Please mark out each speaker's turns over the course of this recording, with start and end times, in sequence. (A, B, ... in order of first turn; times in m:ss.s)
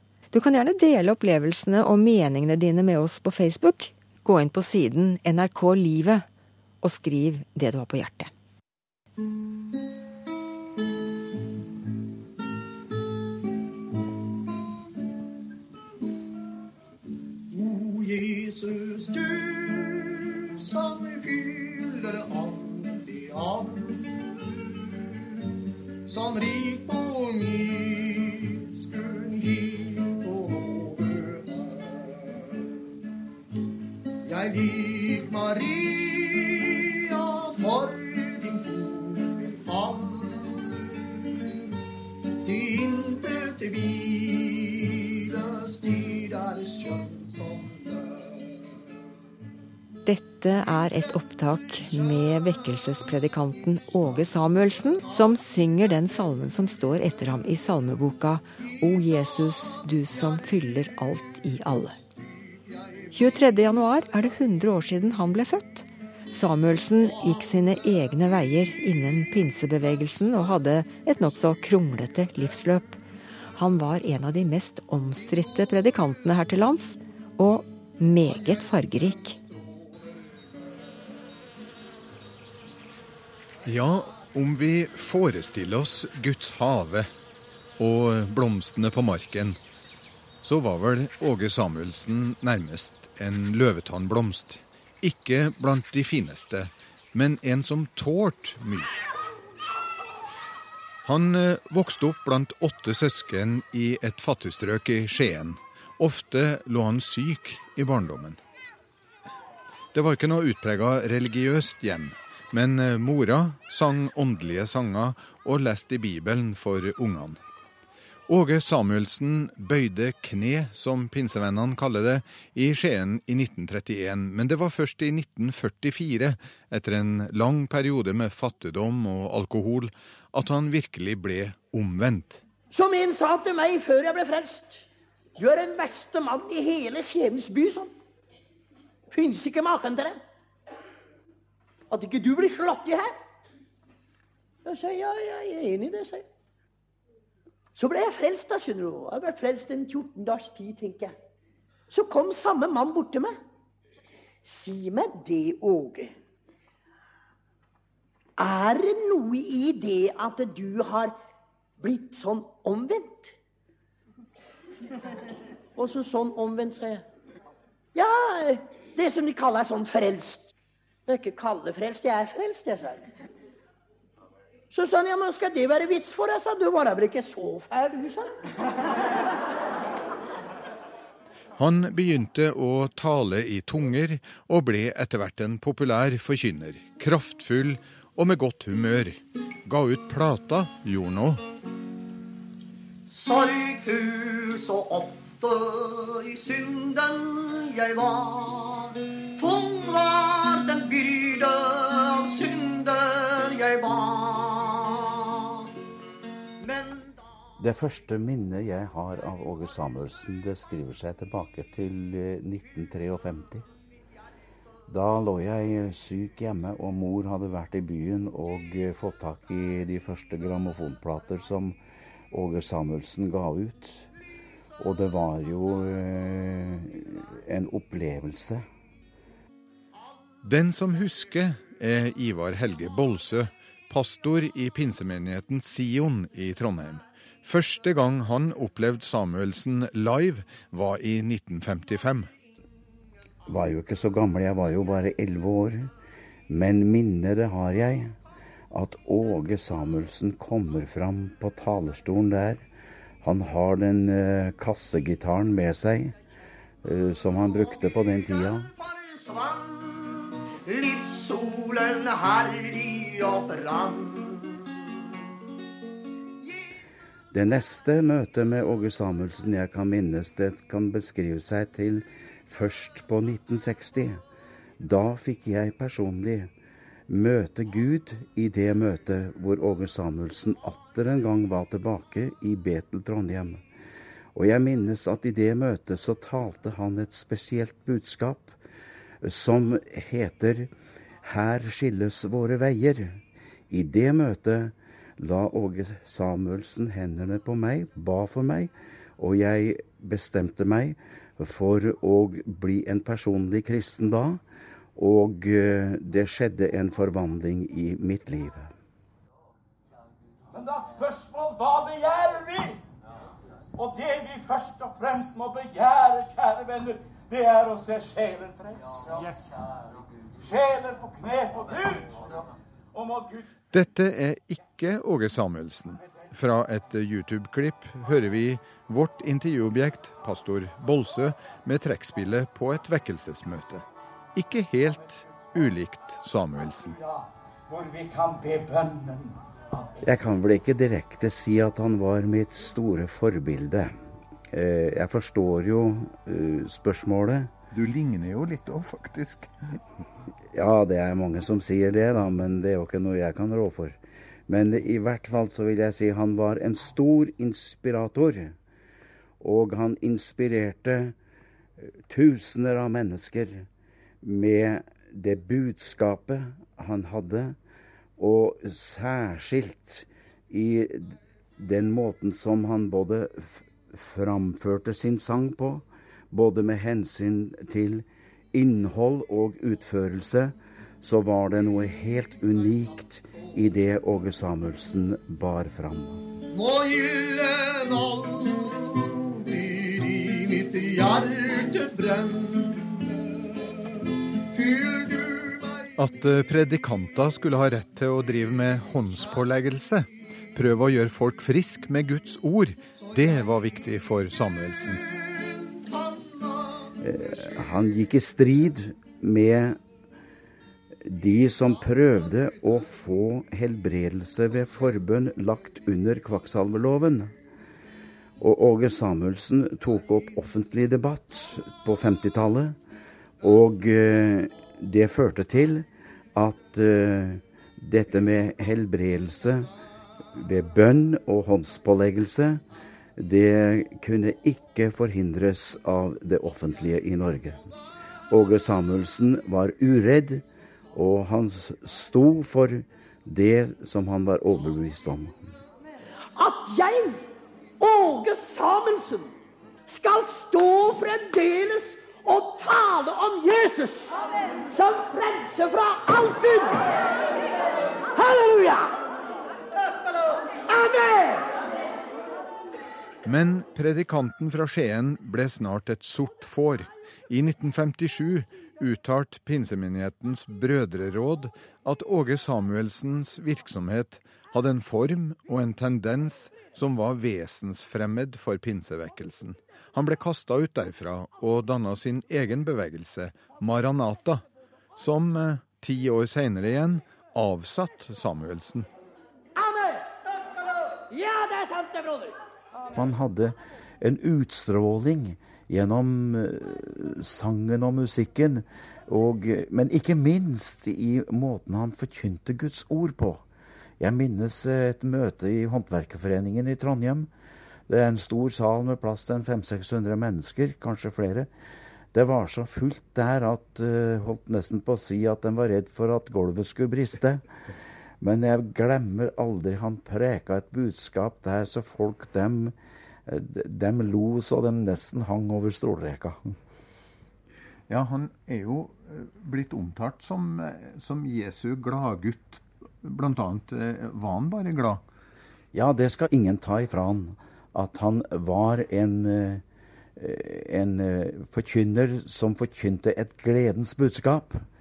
0:00.3-0:06.2 A
0:06.8-0:08.3 A
0:17.5-0:25.2 B
0:26.0-0:32.6 B
0:34.2-0:41.1 B
0:42.4-0:48.6 B
0:50.0-1:02.0 A
1:03.1-1:13.0 A
1:13.5-1:19.4 A
1:23.6-1:27.1 C
1:27.8-1:29.6 C
1:30.4-1:38.9 C
1:41.0-1:48.4 C
1:49.9-1:57.4 C
1:58.3-2:12.4 C
2:12.7-2:14.8 D
2:15.4-2:17.9 D
2:19.1-2:20.2 D
2:21.9-2:23.2 D
2:24.6-2:26.2 D
2:27.8-2:31.1 D
2:31.9-2:33.4 D
2:34.4-2:36.2 D
2:38.4-2:41.1 D
2:41.8-2:43.3 D
2:45.8-2:47.0 D
2:47.9-2:50.5 D
2:51.1-2:53.1 D
2:54.7-2:58.4 D
3:01.6-3:11.4 C
3:13.1-3:25.6 B
3:26.6-3:27.1 B
3:27.6-3:33.6 E
3:34.9-3:41.8 E
3:42.3-3:44.1 E
3:44.8-3:48.6 E
3:50.4-4:02.3 C
4:03.5-4:05.9 E
4:06.5-4:08.1 E
4:08.7-4:12.6 E
4:13.2-4:16.2 E
4:16.8-4:18.7 E
4:19.0-4:24.6 B
4:27.3-4:34.2 E
4:34.8-4:36.5 E
4:37.1-4:43.6 E
4:44.3-4:48.6 E
4:49.2-4:50.7 E
4:51.2-5:04.4 E
5:05.0-5:08.7 E
5:10.5-5:12.8 F
5:13.8-5:19.4 F
5:20.4-5:22.4 F
5:22.9-5:23.5 F
5:23.7-5:33.8 C
5:34.3-5:37.0 C
5:36.9-5:40.0 F
5:40.0-5:44.0 E
5:44.5-5:47.5 E
5:47.7-5:49.5 G
5:50.5-5:58.5 E
5:59.4-6:01.1 E
6:02.1-6:03.7 E
6:04.2-6:07.6 E
6:08.2-6:26.2 E
6:26.5-6:33.6 B
6:34.5-6:35.9 B
6:36.0-6:45.0 C
6:45.0-6:46.9 B
6:47.0-6:49.8 E
6:51.0-6:57.3 E
6:58.4-7:02.8 E
7:03.4-7:09.7 E
7:10.3-7:12.6 E
7:13.2-7:17.6 E
7:18.3-7:25.4 E
7:26.3-7:27.2 D
7:27.8-7:29.3 D
7:29.9-7:36.9 D
7:38.1-7:39.0 D
7:40.7-7:41.5 D
7:43.2-8:04.4 C
8:05.0-8:08.9 C
8:09.6-8:10.1 D
8:11.1-8:12.4 D
8:12.9-8:23.4 E
8:24.0-8:27.3 E
8:27.9-8:31.5 E
8:32.1-8:37.5 E
8:38.2-8:42.7 E
8:43.3-8:46.5 E
8:47.9-8:55.0 G
8:55.7-8:59.6 E
9:00.2-9:04.6 E